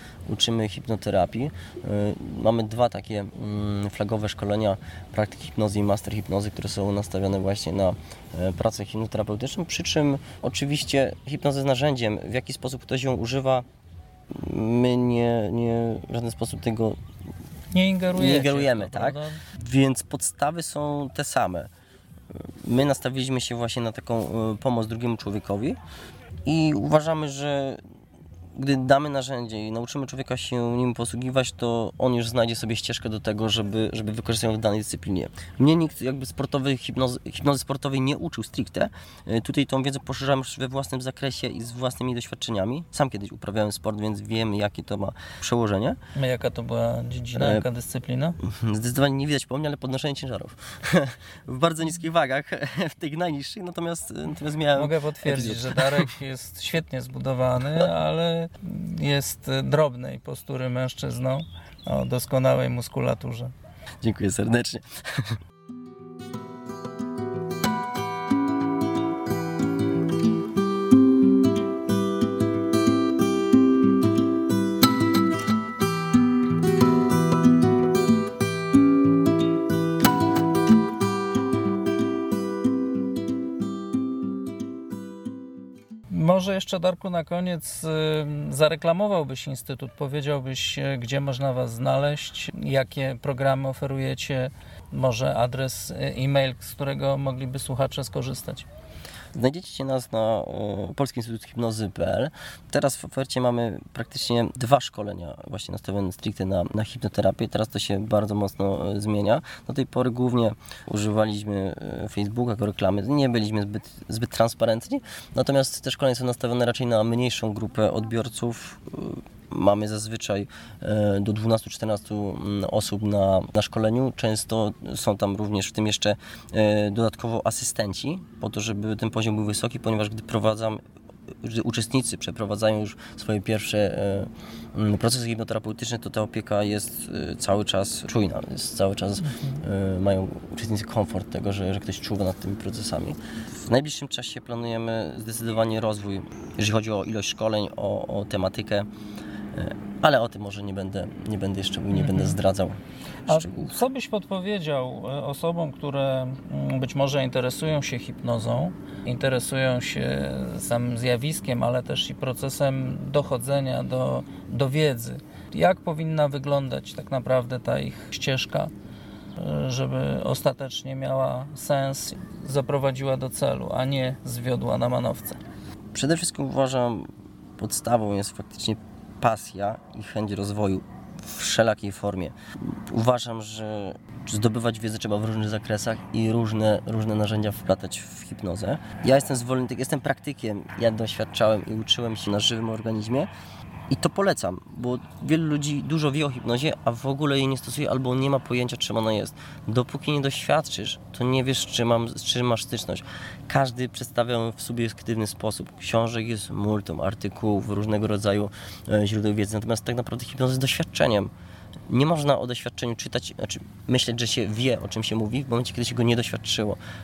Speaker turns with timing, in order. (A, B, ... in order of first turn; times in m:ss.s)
0:00.2-0:13.6 A
0:14.3-0:17.0 A
0:17.7-0:19.4 B
0:18.1-0:21.7 A
0:22.3-0:25.8 A
0:26.4-0:27.8 A
0:28.5-0:46.0 A
0:46.1-0:48.4 B
0:47.3-0:47.6 A
0:48.4-0:56.1 A
0:54.8-1:03.5 B
1:04.0-1:05.4 A
1:26.1-1:38.7 B
1:39.3-2:10.8 A
2:11.4-2:28.9 A
2:19.2-2:19.6 B
2:29.5-2:33.8 A
2:31.9-2:32.4 B
2:33.3-2:48.7 B
2:49.4-2:55.4 B
2:55.9-3:13.3 A
3:13.9-3:31.3 A
3:31.9-3:36.8 A